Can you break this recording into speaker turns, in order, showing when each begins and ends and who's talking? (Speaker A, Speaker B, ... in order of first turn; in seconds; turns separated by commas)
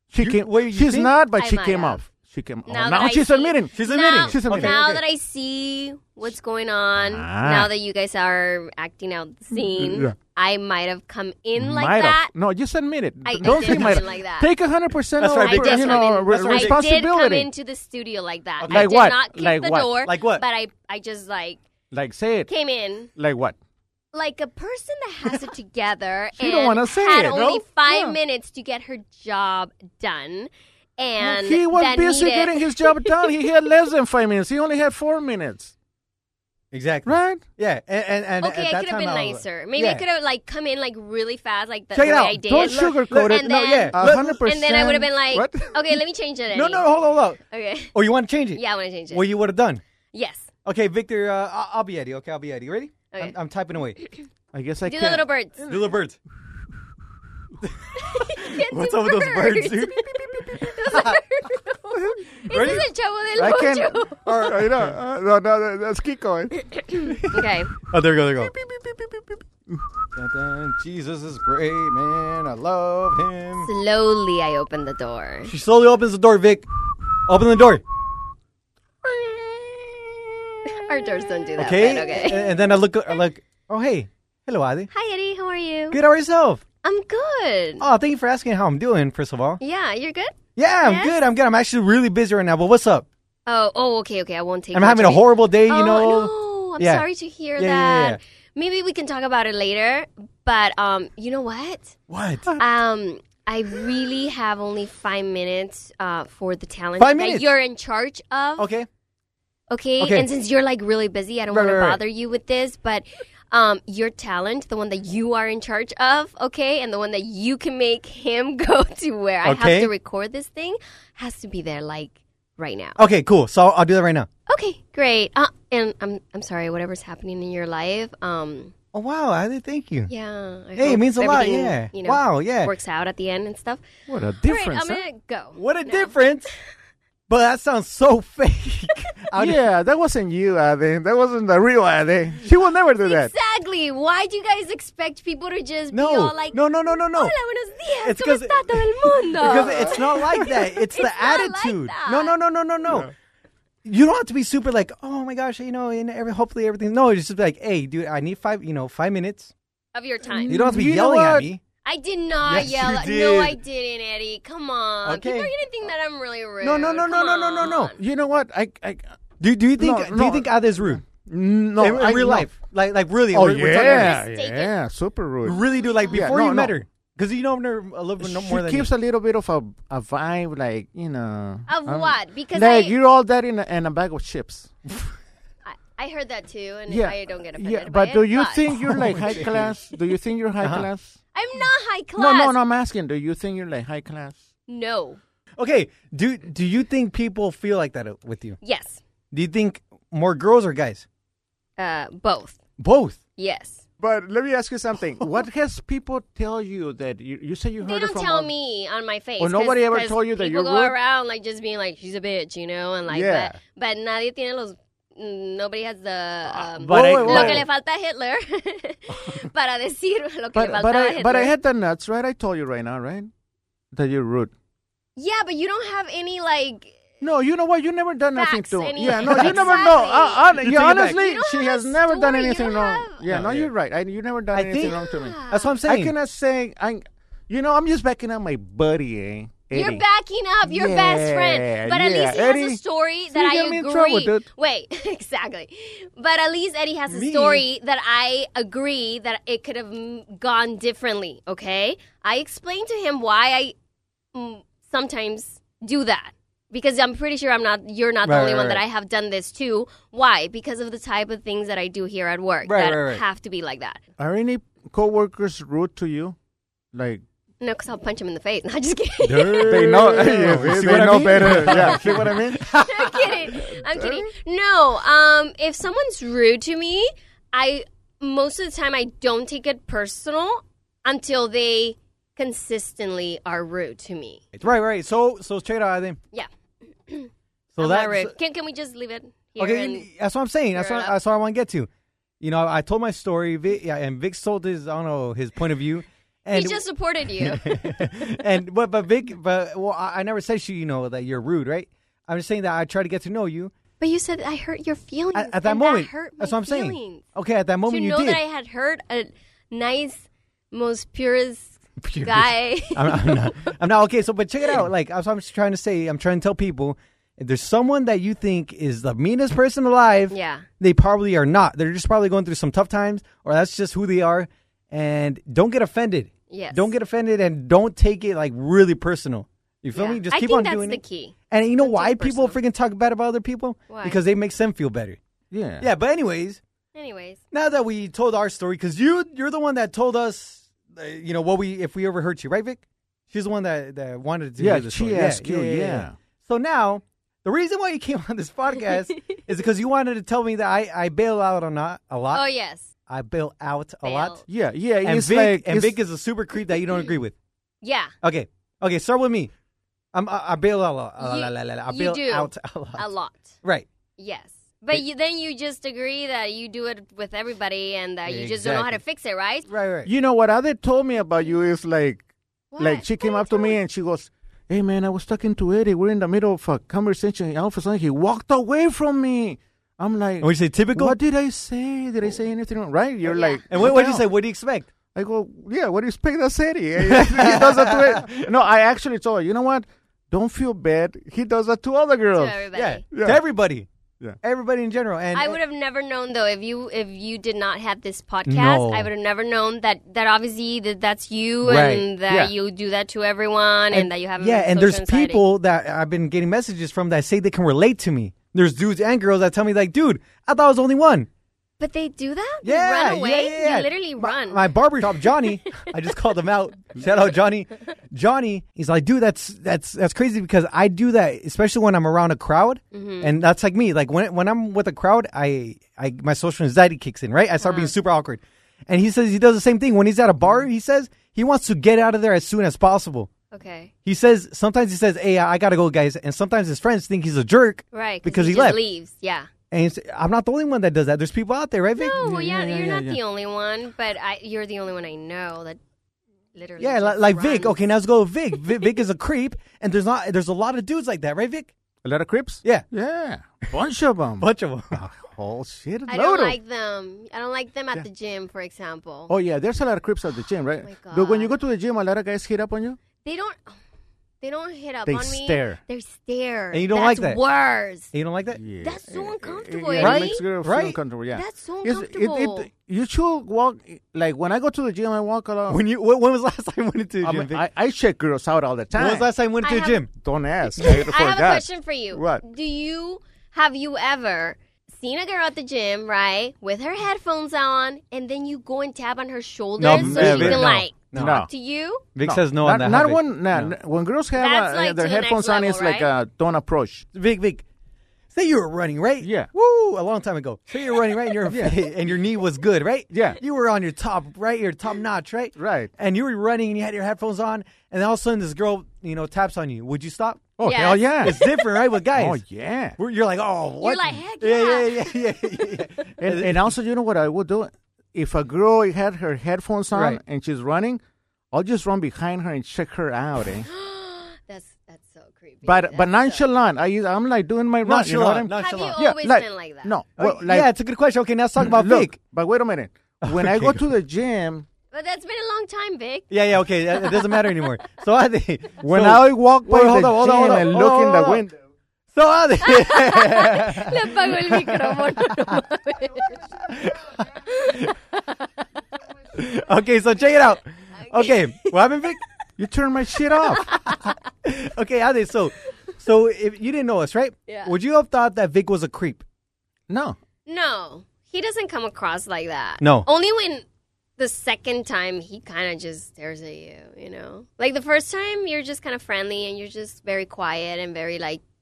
Speaker A: 0.1-4.8, Speaker B: 0.2-1.1, Speaker C: 1.4-2.0, Speaker C: 2.7-12.3, Speaker B: 3.7-5.0, Speaker A: 7.0-7.7, Speaker A: 9.7-10.2, Speaker A: 11.6-17.5, Speaker C: 13.2-14.5, Speaker B: 13.4-14.0, Speaker B: 15.2-16.8, Speaker C: 15.4-21.6, Speaker B: 18.6-19.0, Speaker A: 18.7-19.9, Speaker B: 20.1-20.4, Speaker A: 21.9-22.5, Speaker C: 22.5-23.1, Speaker A: 23.2-23.6, Speaker C: 24.1-33.3, Speaker A: 26.4-28.1, Speaker B: 27.3-27.6, Speaker A: 31.2-35.7, Speaker B: 36.7-40.0, Speaker A: 37.1-37.4, Speaker C: 38.4-46.9, Speaker B: 41.9-44.4, Speaker A: 42.4-45.9, Speaker B: 46.5-47.4, Speaker C: 47.5-47.9, Speaker B: 47.9-49.8, Speaker C: 48.5-49.2, Speaker C: 50.1-50.5, Speaker B: 50.7-54.0, Speaker A: 54.5-55.9, Speaker C: 54.9-55.6, Speaker B: 55.7-56.2, Speaker B: 57.6-61.2, Speaker C: 58.0-64.3, Speaker B: 62.4-62.9, Speaker A: 63.4-66.5, Speaker B: 64.2-65.0, Speaker C: 66.6-67.7, Speaker B: 67.1-68.5, Speaker A: 68.4-69.8, Speaker B: 70.2-73.7, Speaker C: 73.6-75.5, Speaker B: 75.5-76.6, Speaker B: 77.2-77.8, Speaker B: 79.0-80.2, Speaker C: 80.7-82.5, Speaker B: 81.6-84.9, Speaker C: 84.9-86.0, Speaker B: 85.9-86.6, Speaker C: 86.8-87.8, Speaker B: 87.8-89.6, Speaker C: 89.6-91.2, Speaker B: 90.6-93.1, Speaker C: 93.5-102.0, Speaker B: 94.7-97.0, Speaker B: 97.6-98.2, Speaker B: 102.1-102.6, Speaker C: 102.6-108.7, Speaker B: 107.0-107.5, Speaker B: 108.6-108.9, Speaker C: 109.7-123.0, Speaker B: 110.0-110.3, Speaker B: 111.5-112.0, Speaker B: 119.4-119.9, Speaker B: 123.0-124.3, Speaker C: 124.5-128.7, Speaker B: 128.9-130.1, Speaker C: 130.1-133.9, Speaker B: 130.8-132.7, Speaker A: 134.1-135.0, Speaker C: 134.4-136.2, Speaker B: 135.6-136.5, Speaker B: 137.3-139.6, Speaker A: 139.4-143.3, Speaker C: 143.0-152.3, Speaker B: 145.9-147.3, Speaker B: 148.0-153.1, Speaker A: 149.7-150.4, Speaker B: 153.8-159.5, Speaker C: 159.9-160.7, Speaker A: 160.4-161.5, Speaker B: 160.5-161.6, Speaker C: 161.8-168.0, Speaker B: 162.4-163.6, Speaker B: 165.1-165.5, Speaker B: 166.6-167.9, Speaker A: 168.0-169.1, Speaker B: 169.4-171.1, Speaker A: 169.8-172.5, Speaker B: 171.8-174.2, Speaker A: 173.3-176.8, Speaker C: 173.8-174.7, Speaker B: 175.4-178.9, Speaker C: 175.8-176.3, Speaker A: 178.2-184.8, Speaker C: 181.7-182.9, Speaker C: 185.7-188.7, Speaker A: 186.9-191.2, Speaker B: 188.8-189.7, Speaker B: 190.6-190.9, Speaker C: 191.3-192.6, Speaker A: 192.2-194.4, Speaker C: 194.7-195.2, Speaker B: 195.6-198.6, Speaker C: 198.6-199.0, Speaker B: 199.3-201.1, Speaker C: 201.8-202.6, Speaker B: 202.8-203.2, Speaker C: 203.4-203.8, Speaker A: 204.0-208.5, Speaker C: 207.8-221.5, Speaker A: 209.4-211.0, Speaker A: 213.1-213.6, Speaker A: 216.8-217.7, Speaker B: 216.8-217.6, Speaker A: 220.6-223.3, Speaker A: 223.9-224.5, Speaker C: 225.2-227.0, Speaker A: 227.2-240.0, Speaker C: 228.3-233.3, Speaker B: 229.2-229.8, Speaker B: 230.7-231.1, Speaker B: 233.3-233.7, Speaker B: 234.5-236.1, Speaker C: 234.8-235.8, Speaker C: 239.7-253.7, Speaker A: 240.7-244.5, Speaker B: 247.1-247.6, Speaker C: 254.3-264.0, Speaker B: 258.2-258.8, Speaker B: 262.6-263.2, Speaker A: 264.2-266.4, Speaker A: 266.9-267.2, Speaker C: 267.6-270.0, Speaker B: 269.2-273.6, Speaker A: 269.6-272.6, Speaker C: 271.6-284.4, Speaker A: 274.0-274.2, Speaker B: 284.5-286.2, Speaker C: 287.1-290.1, Speaker B: 287.8-288.3, Speaker B: 289.6-291.9, Speaker C: 290.8-291.1, Speaker B: 292.4-296.8, Speaker C: 296.5-298.0, Speaker B: 297.4-303.7, Speaker C: 304.0-307.2, Speaker B: 305.4-308.4, Speaker C: 307.9-313.7, Speaker B: 312.0-335.2, Speaker C: 320.3-320.7, Speaker C: 326.5-326.9, Speaker C: 329.9-332.6, Speaker C: 333.9-334.2, Speaker A: 335.5-335.9, Speaker B: 335.8-336.6, Speaker C: 336.9-337.4, Speaker B: 337.5-352.5, Speaker A: 344.6-346.1, Speaker C: 352.3-352.9, Speaker B: 353.1-354.4, Speaker C: 354.0-354.4, Speaker A: 354.5-356.0, Speaker B: 355.0-357.4, Speaker C: 357.8-358.1, Speaker B: 358.2-359.5, Speaker B: 360.1-363.1, Speaker C: 361.2-363.6, Speaker C: 364.2-369.7, Speaker B: 368.3-369.0, Speaker B: 369.7-370.1, Speaker A: 370.1-372.2, Speaker C: 372.7-373.8, Speaker A: 372.8-384.3, Speaker B: 380.4-381.2, Speaker C: 383.3-383.6, Speaker B: 383.7-384.9, Speaker A: 385.1-393.4, Speaker B: 387.0-388.4, Speaker C: 392.4-393.0, Speaker B: 392.7-393.9, Speaker B: 394.4-395.6, Speaker C: 395.3-405.4, Speaker B: 398.5-399.1, Speaker B: 401.6-402.1, Speaker B: 403.9-411.3, Speaker C: 411.8-415.4, Speaker B: 412.6-433.3, Speaker C: 422.9-423.3, Speaker C: 427.6-427.9, Speaker C: 433.5-433.9, Speaker B: 434.1-438.8, Speaker C: 437.9-439.5, Speaker B: 439.7-442.5, Speaker C: 442.0-445.8, Speaker A: 442.2-443.2, Speaker C: 446.5-447.8, Speaker B: 446.8-451.7, Speaker A: 452.0-456.6, Speaker B: 454.4-455.1, Speaker C: 456.1-459.3, Speaker A: 459.3-463.0, Speaker C: 460.8-461.6, Speaker C: 463.2-463.8, Speaker C: 464.4-468.1, Speaker A: 465.1-465.8, Speaker B: 466.7-467.4, Speaker B: 468.1-468.6, Speaker A: 468.5-475.8, Speaker C: 468.8-470.4, Speaker B: 470.0-471.0, Speaker C: 471.3-472.7, Speaker B: 475.7-477.6, Speaker A: 477.2-479.3, Speaker B: 479.0-480.1, Speaker C: 479.6-480.1, Speaker A: 480.2-482.4, Speaker C: 480.8-492.1, Speaker B: 489.8-491.5, Speaker A: 489.9-491.5, Speaker B: 492.1-493.7, Speaker A: 492.2-497.1, Speaker C: 494.4-496.1, Speaker B: 497.1-497.6, Speaker B: 498.3-510.6, Speaker A: 499.2-499.5, Speaker A: 501.5-501.8, Speaker A: 503.1-503.4, Speaker A: 505.6-505.9, Speaker A: 510.6-511.4, Speaker C: 510.6-511.5, Speaker B: 511.2-512.4, Speaker A: 512.1-513.0, Speaker B: 513.0-516.7, Speaker C: 513.8-515.4, Speaker A: 516.2-521.0, Speaker B: 519.9-520.2, Speaker A: 521.5-523.7, Speaker C: 523.6-526.4, Speaker A: 525.6-530.7, Speaker B: 527.8-529.0, Speaker C: 528.5-529.9, Speaker B: 530.2-532.2, Speaker A: 531.6-534.7, Speaker B: 533.2-533.8, Speaker C: 534.9-536.3, Speaker B: 536.3-541.5, Speaker C: 537.0-537.6, Speaker A: 538.8-541.6, Speaker B: 542.1-545.6, Speaker C: 542.6-546.5, Speaker B: 546.6-548.0, Speaker C: 547.5-547.9, Speaker B: 549.3-552.2, Speaker C: 551.0-551.8, Speaker A: 552.6-553.6, Speaker C: 553.6-554.1, Speaker B: 553.7-559.2, Speaker C: 557.5-557.7, Speaker A: 559.9-560.2, Speaker C: 560.5-563.6, Speaker B: 562.8-563.1, Speaker C: 564.2-571.4